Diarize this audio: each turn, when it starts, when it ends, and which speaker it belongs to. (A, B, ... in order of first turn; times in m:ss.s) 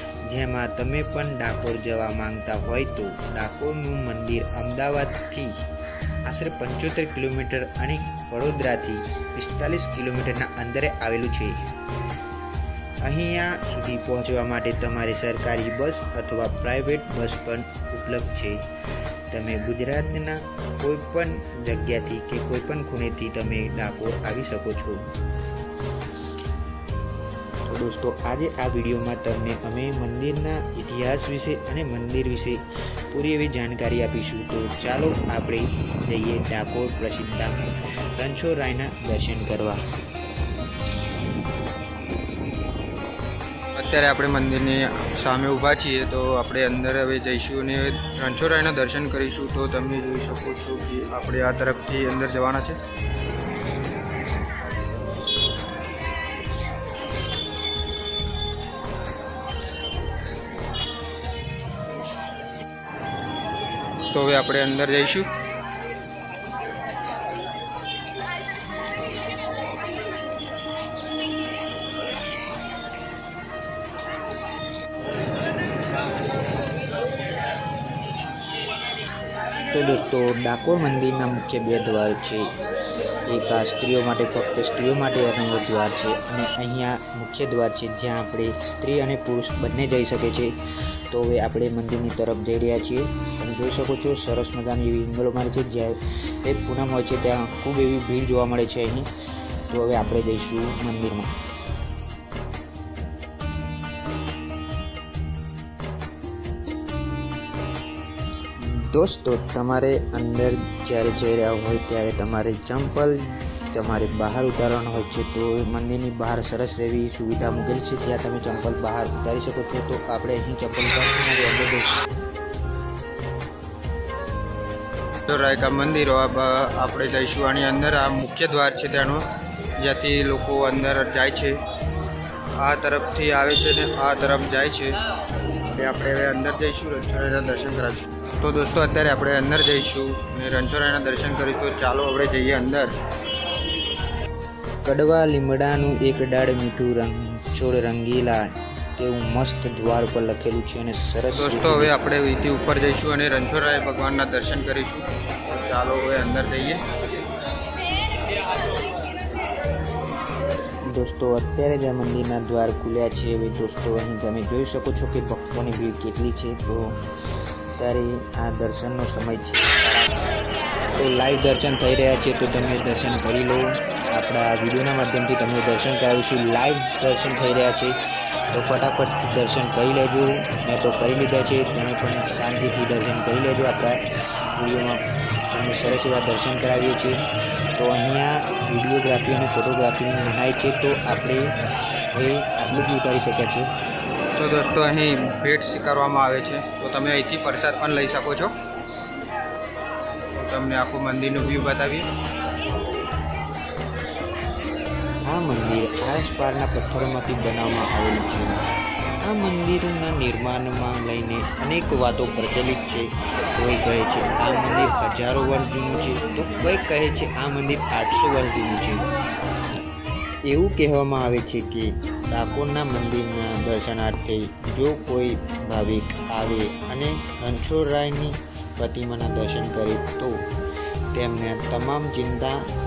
0:00.3-0:05.5 A
0:06.2-0:11.6 A
0:13.0-0:18.6 A
0:19.3-0:25.0 A
0:27.6-0:39.8 A
0:43.7-0:52.8 B
1:04.1-1:05.3 B
1:19.7-1:22.5 A
1:23.3-1:30.6 A
1:31.1-1:39.1 A
1:39.7-1:41.3 A
1:48.6-2:01.9 A
2:05.3-2:09.2 B
2:09.8-2:11.6 B
2:12.6-2:15.0 B
2:15.7-2:22.9 B
2:24.8-2:28.4 A
2:29.0-2:31.9 A
2:31.4-2:36.8 B
2:40.9-2:46.9 A
2:47.8-2:50.2 A
2:51.0-2:58.0 A
2:58.5-3:04.0 A
3:04.6-3:07.2 A
3:07.7-3:11.5 A
3:12.1-3:13.7 A
3:14.4-3:18.5 B
3:20.4-3:22.0 B
3:25.3-3:28.6 A
3:29.2-3:39.0 A
3:40.5-3:50.4 A
3:51.1-3:52.6 A